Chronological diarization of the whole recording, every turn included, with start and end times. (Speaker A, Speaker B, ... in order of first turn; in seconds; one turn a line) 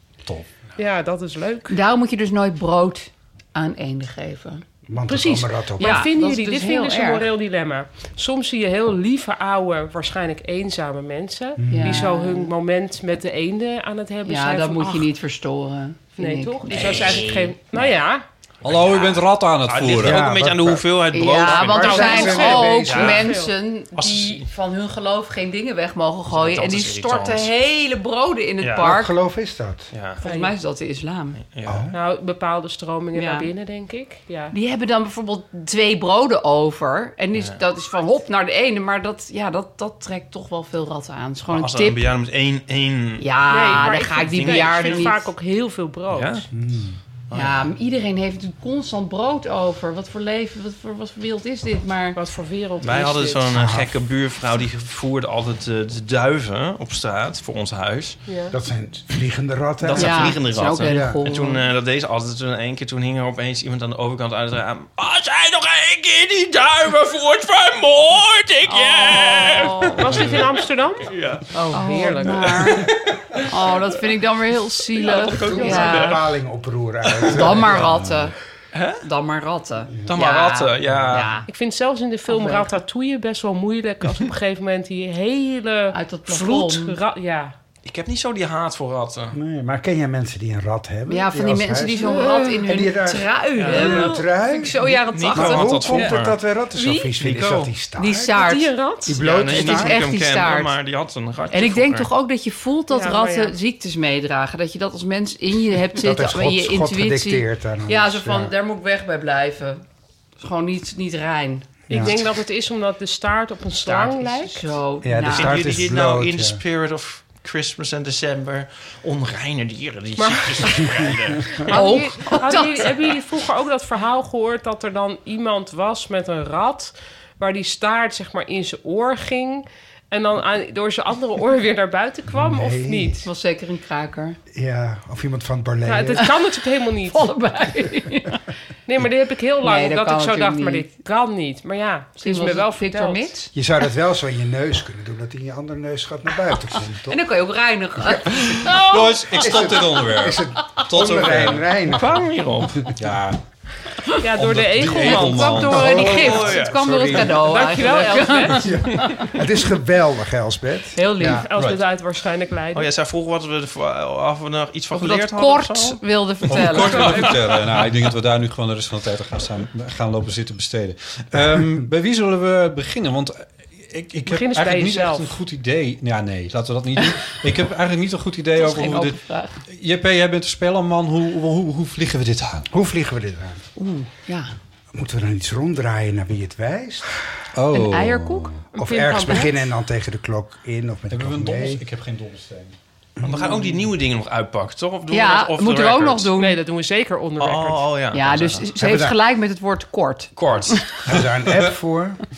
Speaker A: 0.8-1.8
Speaker B: 1.7-4.6
Speaker C: 4.9-6.1
Speaker A: 5.1-15.1
Speaker B: 5.8-7.3
Speaker C: 11.6-12.1
Speaker B: 11.7-12.5
Speaker B: 14.2-17.5
Speaker A: 16.2-18.2
Speaker D: 16.7-17.9
Speaker E: 18.6-20.3
Speaker D: 18.6-22.2
Speaker C: 20.0-21.0
Speaker B: 21.1-29.2
Speaker A: 21.5-23.5
Speaker C: 21.7-23.3
Speaker D: 22.8-23.3
Speaker D: 23.9-24.5
Speaker D: 26.3-27.5
Speaker D: 28.6-28.9
Speaker C: 28.8-29.9
Speaker D: 29.9-30.2
Speaker B: 30.2-31.4
Speaker A: 30.2-30.5
Speaker D: 31.4-31.9
Speaker C: 31.6-32.0
Speaker A: 31.9-34.5
Speaker B: 33.1-33.5
Speaker B: 34.5-42.0
Speaker D: 37.3-37.6
Speaker D: 41.5-43.3
Speaker B: 43.2-45.3
Speaker A: 43.5-46.5
Speaker D: 44.2-45.0
Speaker D: 46.1-46.4
Speaker C: 46.5-47.0
Speaker D: 47.3-47.7
Speaker B: 47.3-52.2
Speaker A: 52.1-53.5
Speaker D: 52.8-58.2
Speaker C: 53.5-54.0
Speaker A: 58.3-58.5
Speaker C: 58.5-61.2
Speaker D: 59.8-70.5
Speaker B: 60.0-61.6
Speaker B: 68.7-70.3
Speaker A: 69.8-71.1
Speaker D: 71.0-71.5
Speaker B: 71.5-72.9
Speaker A: 71.7-72.7
Speaker D: 72.3-73.9
Speaker B: 73.4-76.2
Speaker D: 74.9-76.3
Speaker A: 75.1-75.9
Speaker C: 75.4-77.9
Speaker D: 77.1-77.5
Speaker B: 77.3-78.3
Speaker E: 77.6-78.3
Speaker D: 78.7-79.0
Speaker B: 79.0-81.5
Speaker D: 80.1-81.3
Speaker A: 81.5-87.5
Speaker B: 82.3-82.7
Speaker B: 85.9-87.0
Speaker D: 87.8-89.4
Speaker C: 89.3-98.4
Speaker B: 91.1-96.1
Speaker A: 91.9-92.7
Speaker D: 93.5-94.1
Speaker A: 93.7-94.2
Speaker D: 94.8-96.4
Speaker A: 96.7-97.2
Speaker D: 97.2-97.8
Speaker B: 98.0-98.7
Speaker A: 98.3-99.2
Speaker C: 99.1-100.0
Speaker D: 99.2-102.1
Speaker B: 99.4-100.8
Speaker B: 101.5-109.8
Speaker A: 102.9-103.5
Speaker C: 106.0-108.5
Speaker B: 110.4-111.8
Speaker C: 111.9-112.2
Speaker A: 111.9-114.7
Speaker B: 113.9-115.7
Speaker C: 115.0-116.6
Speaker D: 115.3-121.7
Speaker A: 120.2-121.0
Speaker A: 121.7-133.2
Speaker B: 121.7-123.1
Speaker C: 132.3-133.2
Speaker B: 133.2-134.4
Speaker C: 134.5-136.3
Speaker A: 135.8-137.3
Speaker B: 136.1-136.4
Speaker B: 136.9-138.4
Speaker A: 138.9-143.3
Speaker B: 139.6-141.0
Speaker B: 142.2-143.5
Speaker C: 143.5-147.2
Speaker B: 147.1-149.0
Speaker C: 148.0-148.8
Speaker E: 148.6-151.7
Speaker C: 149.4-152.3
Speaker D: 151.5-153.0
Speaker E: 153.0-153.4
Speaker A: 154.2-155.7
Speaker E: 154.3-157.4
Speaker B: 154.9-159.3
Speaker C: 155.7-156.7
Speaker D: 155.7-157.4
Speaker A: 157.3-158.8
Speaker C: 158.6-161.5
Speaker B: 160.9-161.5
Speaker A: 161.3-162.9
Speaker E: 161.5-161.8
Speaker D: 162.7-167.9
Speaker B: 164.9-167.3
Speaker E: 166.5-182.7
Speaker A: 166.9-167.3
Speaker A: 174.3-175.3
Speaker B: 178.6-179.6
Speaker C: 182.7-183.7
Speaker B: 183.8-184.5
Speaker C: 184.9-187.2
Speaker E: 187.5-188.6
Speaker B: 187.7-188.6
Speaker A: 188.7-189.7
Speaker C: 188.8-191.8
Speaker E: 191.1-192.8
Speaker C: 193.2-193.8
Speaker D: 193.2-196.3
Speaker B: 195.1-196.6
Speaker A: 196.3-198.0
Speaker D: 197.4-198.7
Speaker B: 198.1-201.0
Speaker C: 198.8-199.2
Speaker D: 200.4-200.8
Speaker C: 201.1-202.2
Speaker E: 201.1-201.7